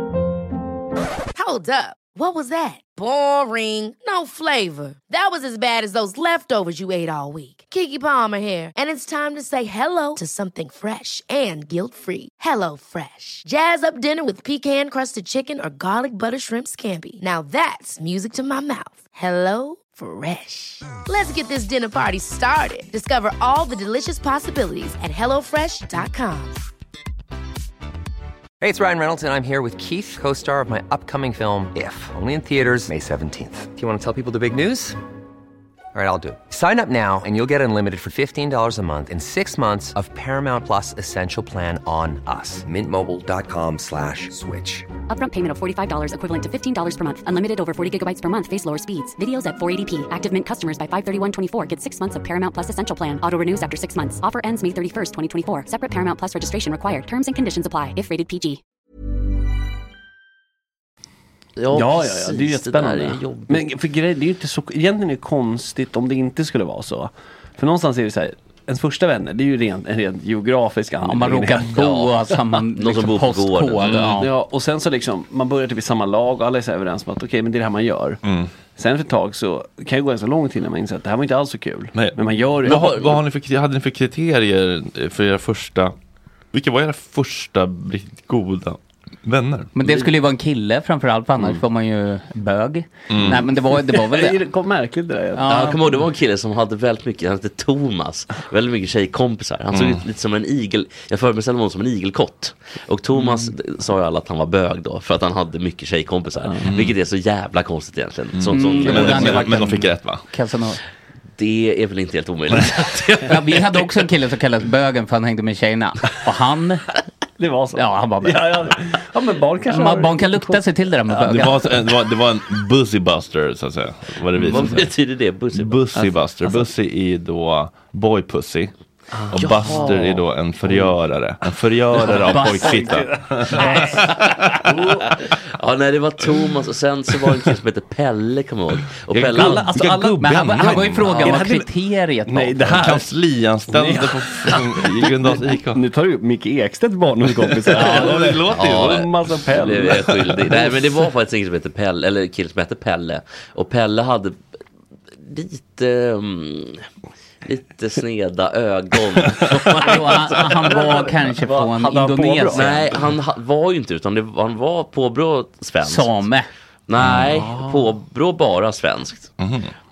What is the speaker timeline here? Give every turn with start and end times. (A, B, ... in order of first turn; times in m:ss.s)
0:01.4-0:26.6 A
0:28.6-0:35.0 B
0:35.9-0:44.9 B
0:45.1-0:58.6 C
1:01.6-1:03.6 D
1:01.7-1:11.8 E
1:11.0-1:14.3 F
1:11.7-1:12.1 D
1:12.7-1:14.2 D
1:14.0-1:18.2 E
1:18.2-1:18.5 G
1:18.8-1:23.1 E
1:21.9-1:26.0 G
1:26.5-1:29.7 G
1:29.8-1:34.4 F
1:33.1-1:33.4 G
1:33.3-1:35.9 E
1:35.4-1:35.8 F
1:35.5-1:49.5 D
1:39.7-1:40.0 G
1:46.6-1:47.0 G
1:48.3-1:50.2 G
1:48.5-1:50.8 F
1:51.4-1:53.9 D
1:53.3-1:56.9 F
1:57.4-2:01.5 E
1:57.8-1:58.5 F
1:59.7-2:01.6 F
2:01.2-2:04.9 G
2:04.4-2:05.8 D
2:05.5-2:08.7 G
2:09.3-2:10.2 D
2:09.3-2:14.7 G
2:09.6-2:10.1 E
2:10.6-2:10.9 E
2:11.9-2:14.1 E
2:12.0-2:14.0 F
2:14.6-2:15.0 E
2:15.6-2:19.7 D
2:19.1-2:21.4 G
2:19.2-2:21.7 E
2:20.2-2:22.6 F
2:22.3-2:23.1 E
2:22.6-2:25.8 G
2:23.7-2:30.8 E
2:27.4-2:30.0 G
2:27.8-2:34.4 D
2:35.2-2:36.9 D
2:37.4-2:40.8 D
2:39.5-2:42.8 F
2:40.4-2:43.0 E
2:42.5-2:46.3 D
2:45.8-2:46.5 F
2:46.9-2:49.3 D
2:47.0-2:47.3 G
2:47.5-2:47.8 E
2:49.4-2:49.7 G